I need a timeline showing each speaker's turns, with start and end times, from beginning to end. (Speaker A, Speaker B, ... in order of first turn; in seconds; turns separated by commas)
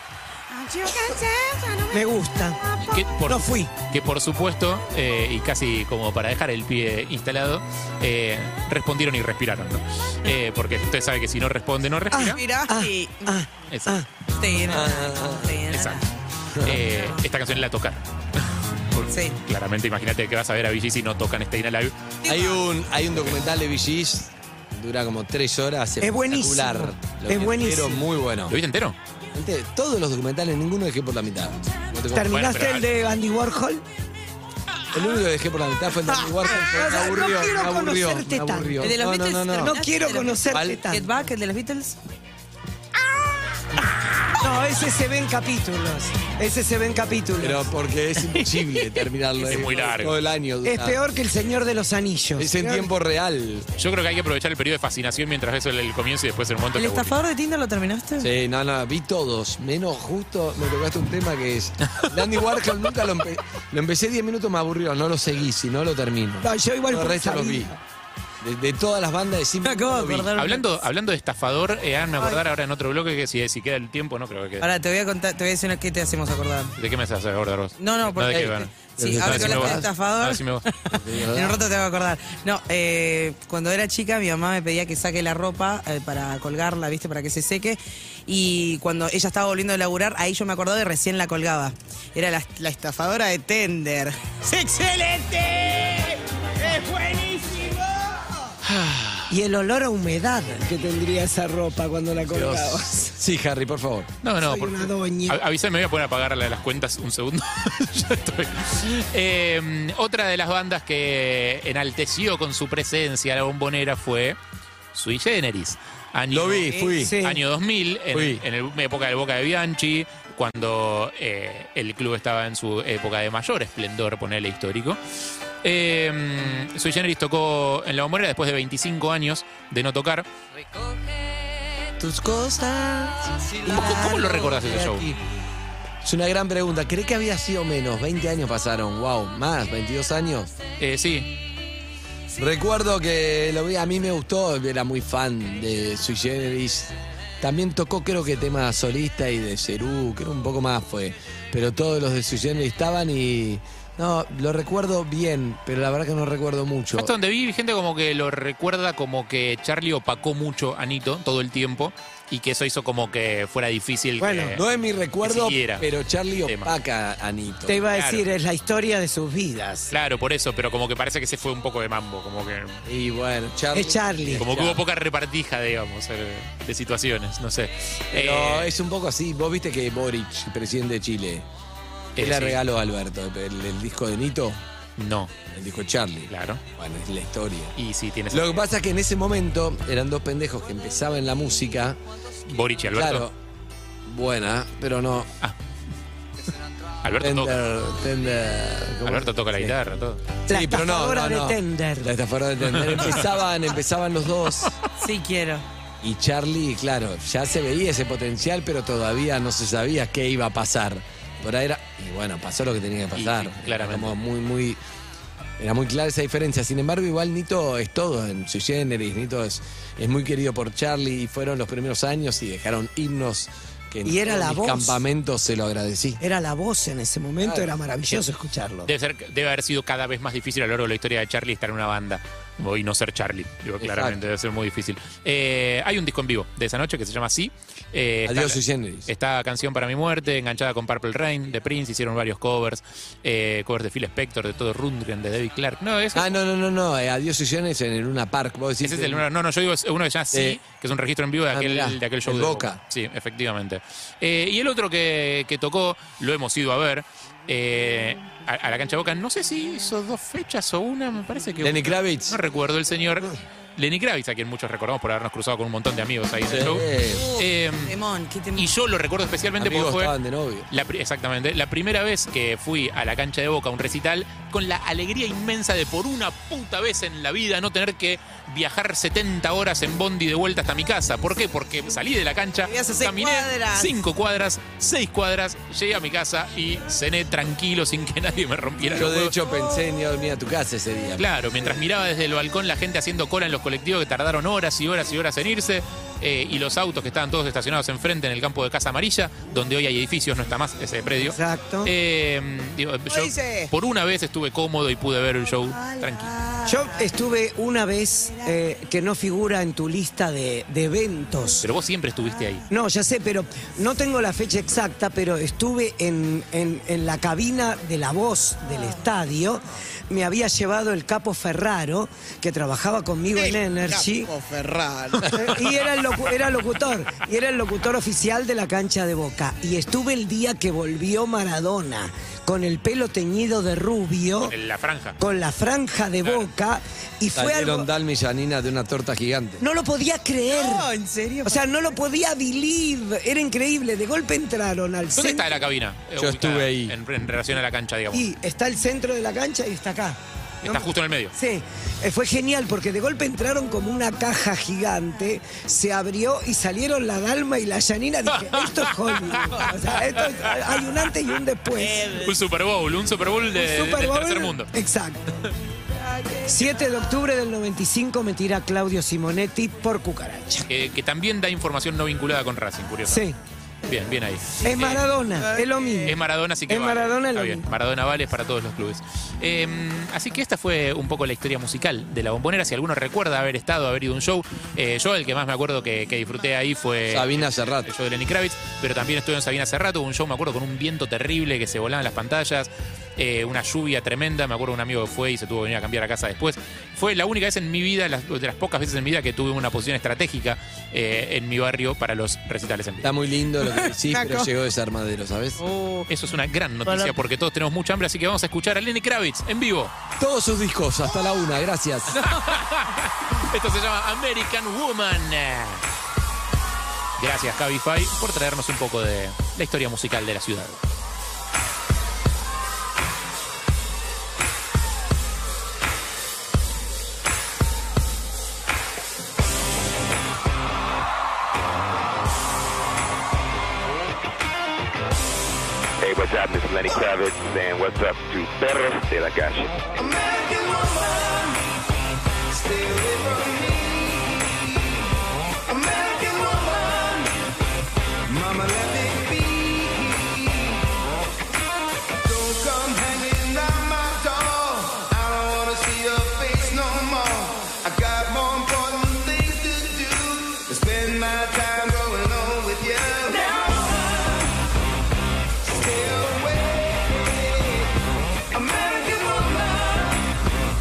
Speaker A: 0.5-2.1, Speaker B: 1.9-2.6, Speaker A: 2.7-3.0, Speaker C: 2.8-12.4, Speaker B: 3.2-3.7, Speaker B: 12.1-14.1, Speaker A: 12.2-13.4, Speaker C: 13.7-13.9, Speaker A: 14.3-16.1, Speaker D: 14.7-15.6, Speaker C: 15.7-16.0, Speaker D: 16.6-16.8, Speaker C: 16.6-18.0, Speaker C: 18.9-22.0, Speaker A: 19.1-19.4, Speaker A: 22.2-22.7, Speaker D: 22.2-28.6, Speaker B: 26.0-28.1, Speaker C: 28.5-29.0, Speaker D: 29.3-32.3, Speaker B: 32.1-33.8, Speaker C: 32.2-32.9, Speaker D: 34.9-39.8, Speaker B: 36.5-38.9, Speaker A: 38.8-42.0, Speaker B: 39.6-41.1, Speaker D: 40.5-40.8, Speaker B: 44.2-47.7, Speaker D: 47.4-51.0, Speaker A: 48.2-49.1, Speaker C: 49.4-50.1, Speaker B: 50.6-52.9, Speaker D: 52.4-53.7, Speaker C: 53.8-57.2, Speaker A: 56.7-58.3, Speaker D: 58.2-67.7, Speaker B: 66.4-67.8, Speaker D: 68.4-70.3, Speaker A: 69.6-70.7, Speaker C: 70.3-74.7, Speaker A: 74.6-76.7, Speaker C: 76.8-80.6, Speaker A: 77.8-97.8, Speaker D: 79.0-79.8, Speaker D: 80.9-81.6, Speaker C: 98.7-99.3, Speaker B: 99.3-103.1, Speaker D: 102.2-104.1, Speaker C: 104.2-114.4, Speaker B: 104.4-105.4, Speaker C: 114.9-125.0, Speaker D: 116.3-117.2, Speaker B: 117.0-117.4, Speaker D: 118.1-118.4, Speaker C: 125.6-130.2, Speaker D: 132.0-135.2, Speaker C: 133.6-135.1, Speaker D: 136.0-140.5, Speaker C: 140.8-141.3, Speaker D: 142.4-157.1, Speaker C: 156.9-164.6, Speaker B: 164.2-164.6, Speaker D: 164.5-167.8, Speaker C: 165.2-165.9, Speaker C: 166.4-166.7, Speaker B: 167.7-169.9, Speaker C: 167.9-168.2, Speaker C: 169.9-172.8, Speaker D: 172.8-174.8, Speaker B: 173.7-174.5, Speaker C: 174.3-178.7, Speaker D: 178.1-181.4, Speaker C: 182.2-182.6, Speaker D: 182.2-184.6, Speaker C: 185.0-185.3, Speaker D: 185.5-187.7, Speaker C: 186.3-186.6, Speaker C: 187.8-188.6, Speaker D: 188.3-192.0, Speaker C: 192.5-193.3, Speaker D: 192.9-193.3, Speaker D: 194.1-195.3, Speaker C: 197.0-197.6, Speaker D: 197.2-199.8, Speaker C: 199.0-200.2, Speaker B: 200.5-202.1, Speaker D: 200.5-204.8, Speaker C: 202.7-203.2, Speaker A: 204.9-205.6, Speaker D: 206.0-214.8, Speaker C: 213.1-214.2, Speaker D: 215.6-226.2, Speaker B: 224.0-225.0, Speaker B: 226.2-228.9, Speaker D: 227.4-227.7, Speaker C: 228.8-246.3, Speaker D: 233.8-234.2, Speaker D: 238.2-239.1, Speaker D: 246.1-249.2, Speaker C: 248.8-267.9, Speaker D: 250.3-250.6, Speaker D: 251.5-252.8, Speaker D: 261.6-262.4, Speaker D: 266.5-267.3, Speaker A: 267.1-268.8, Speaker C: 268.5-270.1, Speaker D: 269.6-270.7, Speaker C: 270.7-289.3, Speaker A: 282.6-284.0, Speaker D: 288.9-291.3, Speaker C: 291.1-306.3, Speaker B: 301.3-301.9, Speaker A: 303.1-303.7, Speaker A: 306.3-306.8, Speaker B: 306.6-311.7, Speaker C: 311.6-312.7, Speaker B: 312.7-324.3, Speaker B: 325.2-334.5, Speaker C: 334.4-335.2, Speaker B: 335.2-337.9, Speaker C: 336.2-336.5, Speaker D: 337.3-339.6, Speaker B: 339.6-340.9, Speaker A: 340.4-341.6, Speaker B: 341.4-345.6, Speaker C: 345.1-348.3, Speaker D: 346.2-346.9, Speaker B: 348.1-362.2, Speaker C: 350.6-351.3, Speaker C: 358.3-360.8, Speaker C: 361.9-364.7, Speaker B: 363.6-365.3, Speaker B: 366.4-370.7, Speaker C: 370.7-373.2, Speaker B: 373.1-373.4, Speaker C: 373.8-375.0, Speaker B: 374.6-376.2, Speaker A: 375.6-375.9, Speaker C: 376.0-403.1, Speaker B: 376.7-377.6, Speaker D: 387.1-387.9, Speaker D: 403.0-405.6, Speaker A: 403.6-404.5, Speaker A: 405.6-406.1, Speaker C: 406.1-409.9, Speaker D: 410.2-412.2, Speaker C: 412.1-415.8, Speaker A: 412.2-412.5, Speaker C: 417.2-420.8, Speaker E: 436.0-439.8, Speaker F: 440.0-441.6, Speaker F: 442.5-444.5, Speaker F: 445.7-447.3, Speaker F: 448.3-450.8, Speaker F: 452.2-464.1, Speaker F: 465.7-467.4, Speaker F: 468.6-470.0